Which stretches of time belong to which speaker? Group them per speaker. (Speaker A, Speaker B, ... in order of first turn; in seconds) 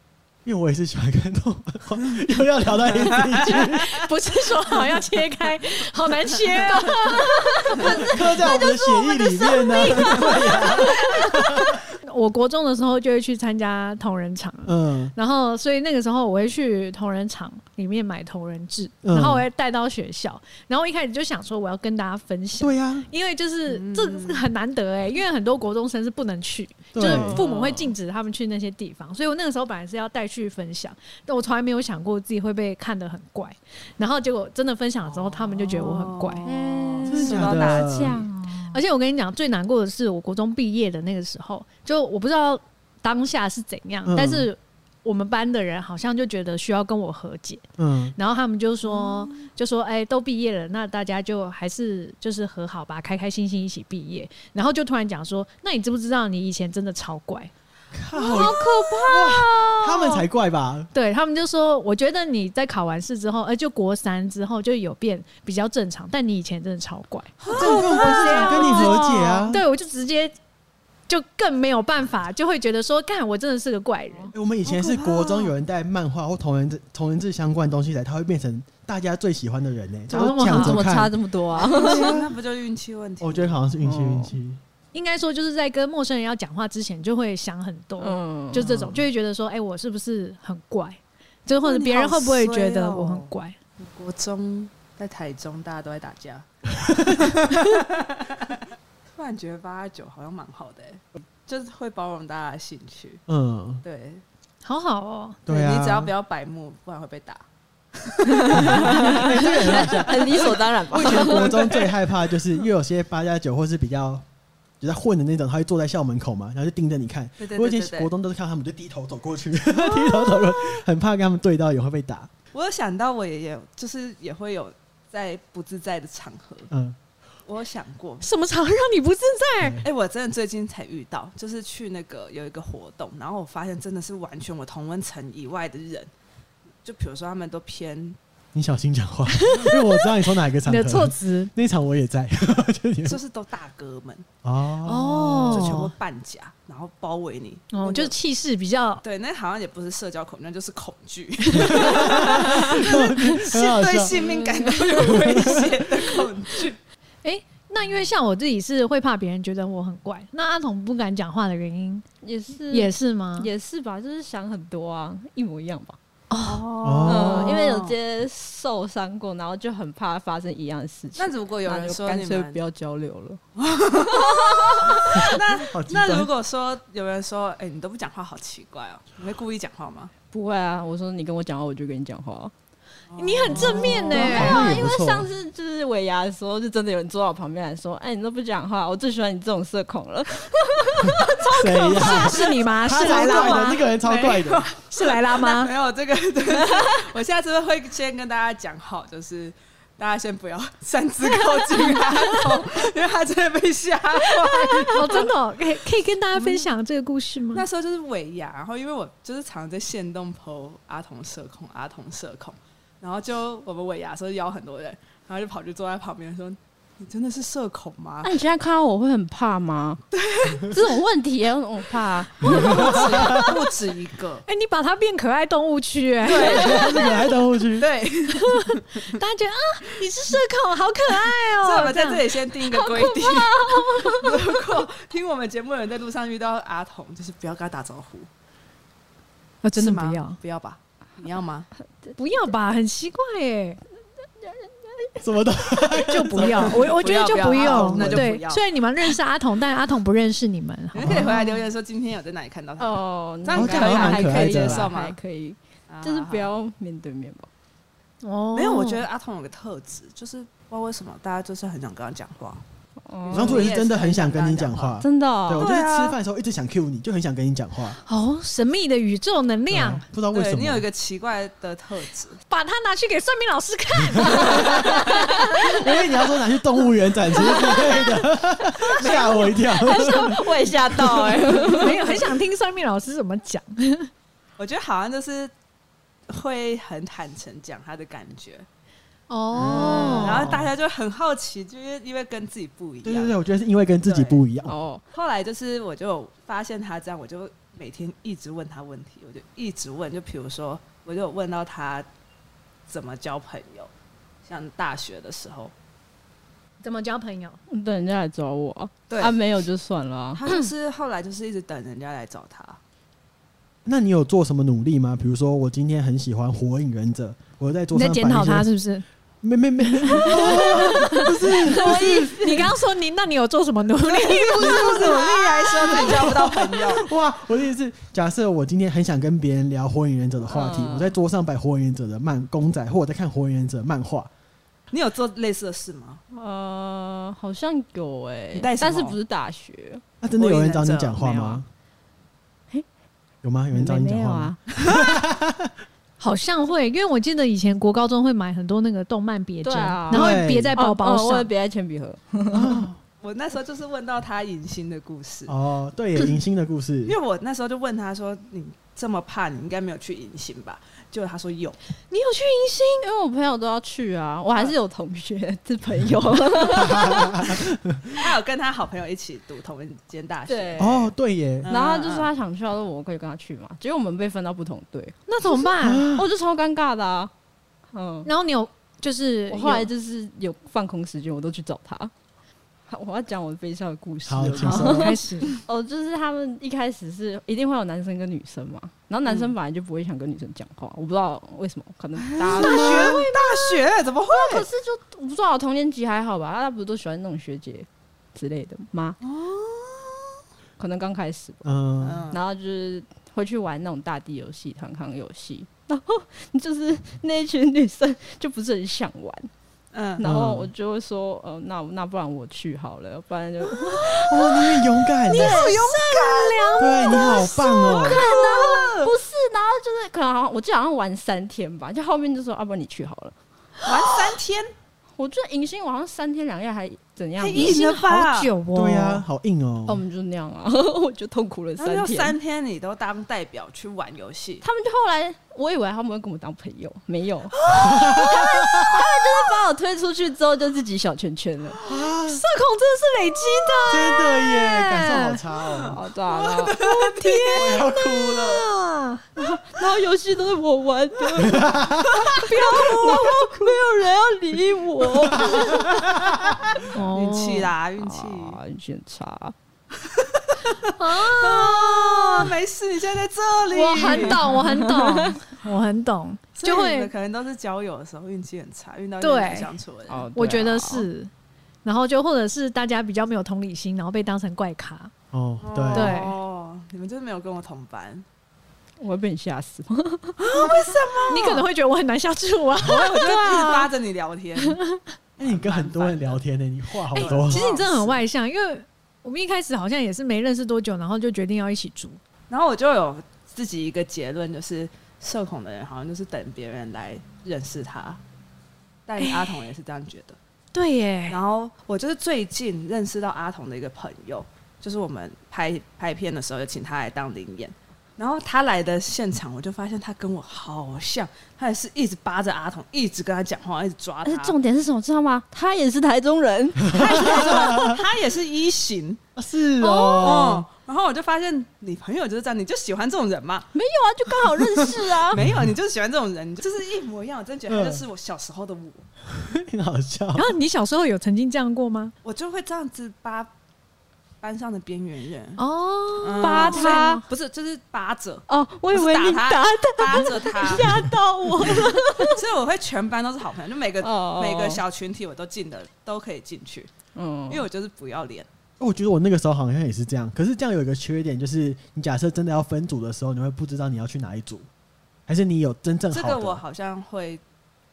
Speaker A: 0.5-4.0, 7.8-11.8, 14.7-15.1, 19.0-19.4, 22.6-23.1, 26.9-27.4, 37.1-38.3, 44.1-44.5, 47.8-48.2, 57.9-60.9, 67.5-69.6, 74.3-81.2, 81.7-82.3, 83.2-84.6, 88.6-89.0, 96.8-97.6, 103.3-103.8, 105.5-106.1, 108.5-114.2, 114.8-122.3, 126.7-127.0, 129.6-129.9, 138.5-143.2, 144.4-145.9, 151.5-154.2, 155.0-155.8, 166.8-167.6, 175.1-176.3, 183.9-185.3, 191.1-194.7, 222.4-223.6, 226.3-227.9, 245.2-248.3, 251.0-251.4, 253.5-254.9, 263.3-268.0, 269.7-270.9, 274.2-281.3, 289.6-290.7, 293.0-294.7, 313.9-318.7, 319.4-322.7, 324.6-334.3, 340.2-341.7, 343.4-345.7, 350.1-350.8, 352.5-353.0, 355.5-357.2, 366.8-368.2, 370.8-371.7, 375.8-376.3, 384.3-385.2, 392.5-393.3, 401.6-402.3, 410.2-410.7, 414.1-415.6, 416.8-418.2, 428.8-430.1, 437.7-439.0, 441.9-442.4, 443.9-446.0, 447.6-448.7, 451.4-452.3, 455.4-456.6, 475.3-476.2, 485.4-487.7, 516.9-518.0, 519.4-520.7, 525.3-525.8, 527.7-528.0, 529.3-530.5, 548.8-554.7, 555.3-556.6
Speaker B: 3.0-3.7, 23.7-24.5, 35.0-38.2, 48.9-49.4, 67.4-69.0, 74.7-75.5, 81.5-83.6, 91.6-98.6, 99.2-103.2, 103.8-104.2, 105.5-107.4, 107.9-112.0, 117.4-118.1, 122.5-126.7, 127.5-128.3, 129.8-136.1, 136.8-138.2, 143.1-144.3, 145.3-148.1, 149.0-156.8, 166.4-168.0, 171.2-172.6, 173.6-180.1, 183.1-184.5, 192.0-205.3, 206.3-206.7, 207.5-218.4, 220.1-220.8, 222.4-224.4, 226.2-227.1, 227.8-229.1, 231.6-238.3, 239.8-241.7, 246.4-248.6, 250.9-255.2, 255.9-256.5, 258.5-262.6, 263.2-265.0, 265.6-266.2, 270.3-272.4, 279.0-279.3, 281.3-281.9, 284.6-285.5, 286.3-288.7, 289.6-293.4, 294.0-294.4, 295.1-302.1, 302.9-303.9, 304.4-305.7, 309.1-309.4, 310.3-312.8, 324.1-327.1, 334.9-336.2, 338.5-339.2, 340.4-341.3, 353.2-355.5, 357.1-361.8, 368.1-371.1, 371.6-372.3, 389.2-389.5, 392.2-394.7, 399.2-400.4, 402.0-402.4, 409.9-410.2, 415.4-419.1, 423.9-424.7, 427.4-428.5, 431.8-434.6, 445.8-447.8, 457.1-458.6, 460.0-464.4, 466.6-470.3, 475.6-478.3, 480.4-481.7, 482.8-484.8, 485.4-486.4, 487.1-488.2, 492.5-498.2, 499.1-500.4, 501.3-514.6, 516.9-519.2, 520.2-523.7, 524.4-529.1, 532.2-533.5, 534.4-535.6, 536.2-540.9, 542.3-546.9, 547.5-548.5, 556.1-557.4
Speaker C: 3.5-36.5, 38.7-47.6, 48.2-57.5, 60.9-70.3, 71.1-74.3, 80.1-80.9, 84.9-93.5, 104.6-105.4, 119.9-120.4, 128.2-129.8, 139.3-140.1, 140.6-141.5, 144.8-145.9, 147.7-149.0, 157.2-162.1, 162.7-163.5, 166.3-166.7, 183.2-184.8, 191.6-193.8, 194.8-195.7, 204.4-207.7, 222.6-223.4, 224.5-227.2, 228.3-232.3, 239.6-240.4, 242.2-243.8, 245.9-251.6, 258.2-259.1, 268.1-270.1, 272.5-275.9, 277.4-278.1, 279.0-280.3, 281.6-284.1, 289.3-290.5, 306.8-307.6, 317.9-319.1, 319.8-325.9, 346.2-351.5, 362.1-363.1, 375.3-376.1, 378.2-379.9, 384.6-385.5, 415.3-418.0, 427.5-429.2, 442.3-445.4, 446.8-449.3, 452.4-453.5, 456.9-457.7, 461.0-462.5, 463.7-467.1, 469.2-469.7, 470.4-471.3, 471.8-475.1, 475.9-476.4, 480.6-483.8, 487.1-492.2, 499.2-499.7, 500.7-501.4, 530.4-532.1, 535.6-537.2
Speaker D: 27.0-27.9, 36.5-38.8, 58.2-60.0, 80.2-82.2, 83.8-84.3, 88.0-88.7, 108.3-111.8, 154.2-155.1, 162.2-166.0, 167.1-173.4, 173.9-175.4, 180.3-182.5, 183.5-192.1, 204.7-205.1, 218.2-220.0, 220.6-223.4, 232.7-234.4, 244.4-245.2, 252.8-257.5, 263.1-263.7, 265.0-265.7, 279.1-282.2, 289.7-290.3, 294.6-295.0, 307.7-310.4, 320.4-322.6, 330.5-331.1, 336.3-340.0, 341.2-341.6, 343.7-344.6, 349.6-352.9, 363.0-367.6, 370.5-371.1, 371.7-375.2, 376.1-377.3, 377.9-378.3, 379.5-382.1, 382.9-393.5, 394.3-399.2, 400.8-401.6, 402.3-409.5, 410.2-414.5, 415.4-415.7, 417.9-423.4, 425.1-427.8, 429.9-432.4, 434.6-441.8, 445.9-446.8, 449.4-456.1, 458.0-459.6, 464.0-465.4, 470.1-471.1, 479.0-480.4, 514.2-517.8, 519.8-520.5, 523.7-525.4, 536.4-537.2, 538.5-542.4, 544.0-544.8, 547.1-547.6